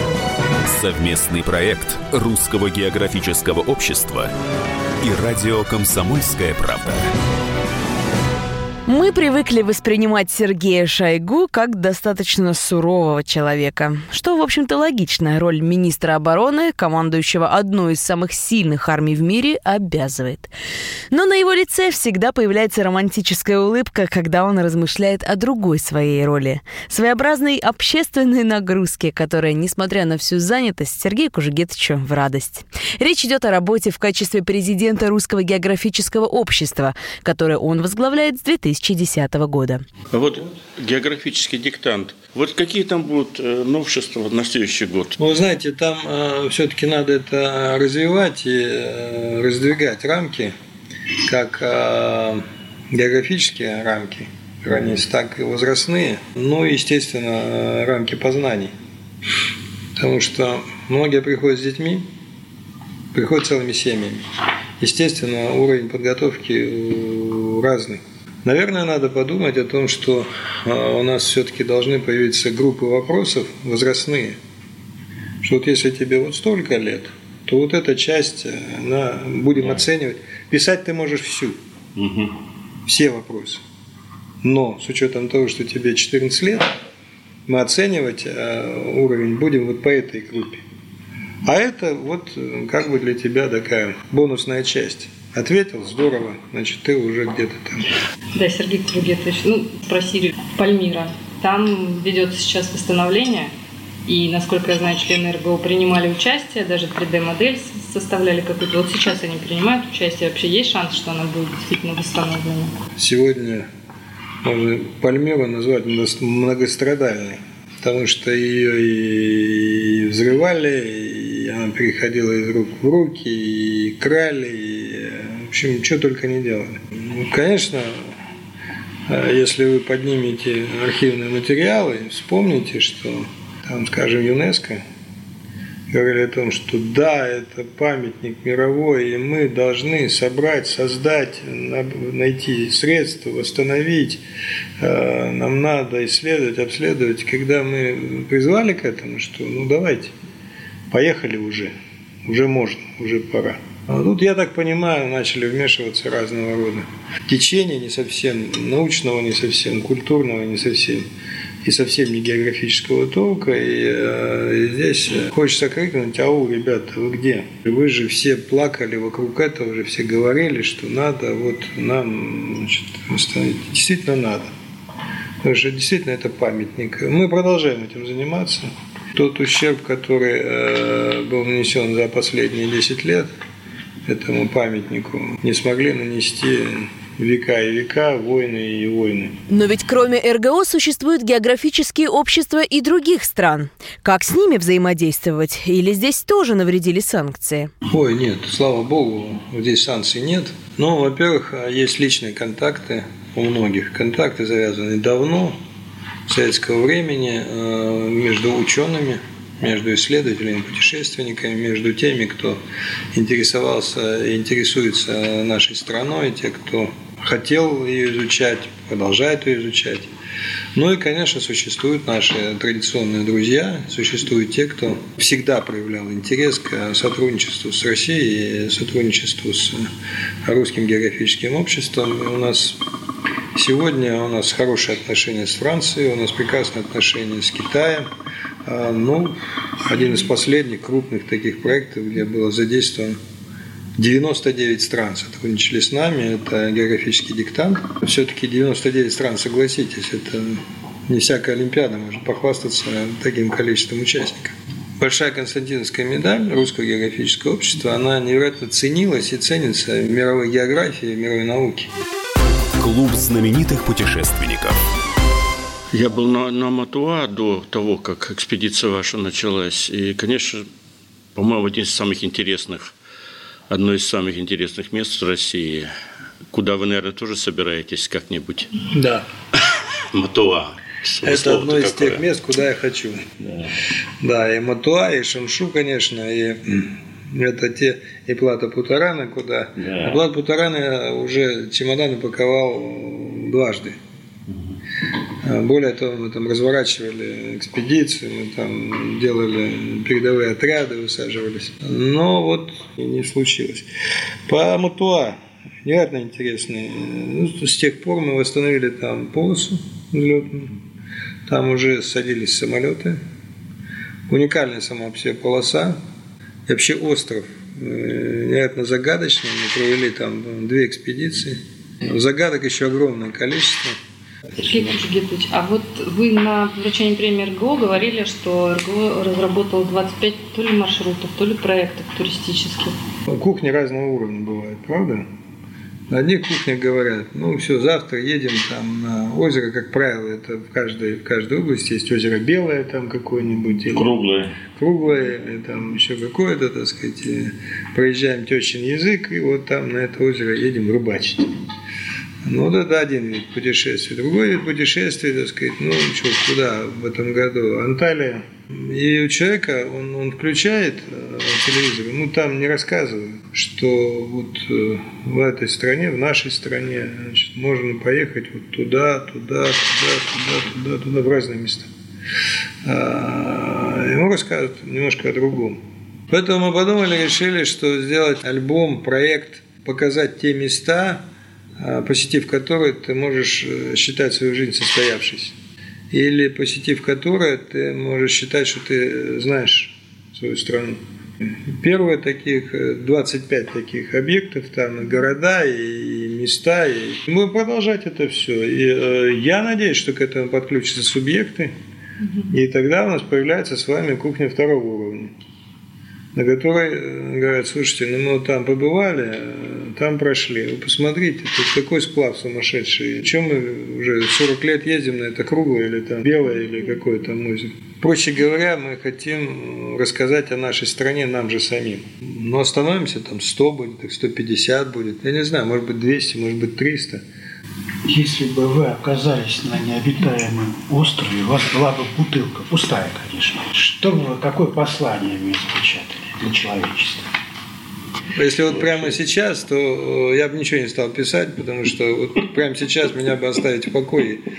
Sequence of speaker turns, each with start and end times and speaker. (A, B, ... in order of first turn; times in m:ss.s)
0:00.6-0:04.3 A
0:05.0-0:07.2 A
0:08.9-0:20.5 B
0:21.1-0:39.8 B
0:40.1-0:45.2 C
0:45.2-0:50.5 D
0:51.2-0:58.7 D
1:00.0-1:02.0 D
1:03.1-1:04.2 D
1:04.8-1:14.4 D
1:15.4-1:21.6 D
1:22.0-1:22.3 C
1:22.9-1:23.6 D
1:24.4-1:26.7 D
1:27.5-1:30.6 D
1:31.4-1:37.9 D
1:38.4-1:43.5 E
1:44.1-1:52.7 E
1:53.0-1:53.7 D
1:54.4-2:08.1 D
2:09.1-2:14.8 D
2:15.9-2:24.2 D
2:24.8-2:30.1 D
2:30.9-2:31.7 D
2:32.3-2:41.1 D
2:41.6-2:54.5 D
2:55.4-3:03.3 D
3:04.1-3:09.3 D
3:09.5-3:17.7 B
3:17.9-3:25.6 D
3:26.3-3:32.6 D
3:33.1-3:40.1 D
3:40.8-3:49.9 D
3:50.4-3:52.8 D
3:53.6-3:58.1 D
3:58.6-4:03.2 D
4:04.0-4:21.9 D
4:22.8-4:24.8 A
4:25.9-4:30.6 C
4:31.4-4:32.9 C
4:33.7-4:35.9 C
4:36.5-4:38.7 C
4:38.9-4:39.2 D
4:40.1-4:42.2 C
4:41.2-4:43.2 D
4:43.4-4:43.7 C
4:44.2-4:54.0 D
4:49.8-4:50.2 C
4:55.4-5:03.9 D
5:04.5-5:10.7 D
5:11.5-5:13.2 D
5:14.3-5:16.0 D
5:16.7-5:24.0 D
5:24.6-5:33.0 E
5:33.3-5:35.2 D
5:36.1-5:44.2 D
5:43.9-5:44.6 C
5:44.7-5:51.5 D
5:52.4-6:11.9 D
6:12.8-6:15.8 D
6:16.3-6:21.2 D
6:21.8-6:25.6 D
6:26.1-6:41.7 D
6:42.5-6:45.3 D
6:46.4-7:07.2 D
7:08.1-7:17.3 F
7:18.4-7:24.4 D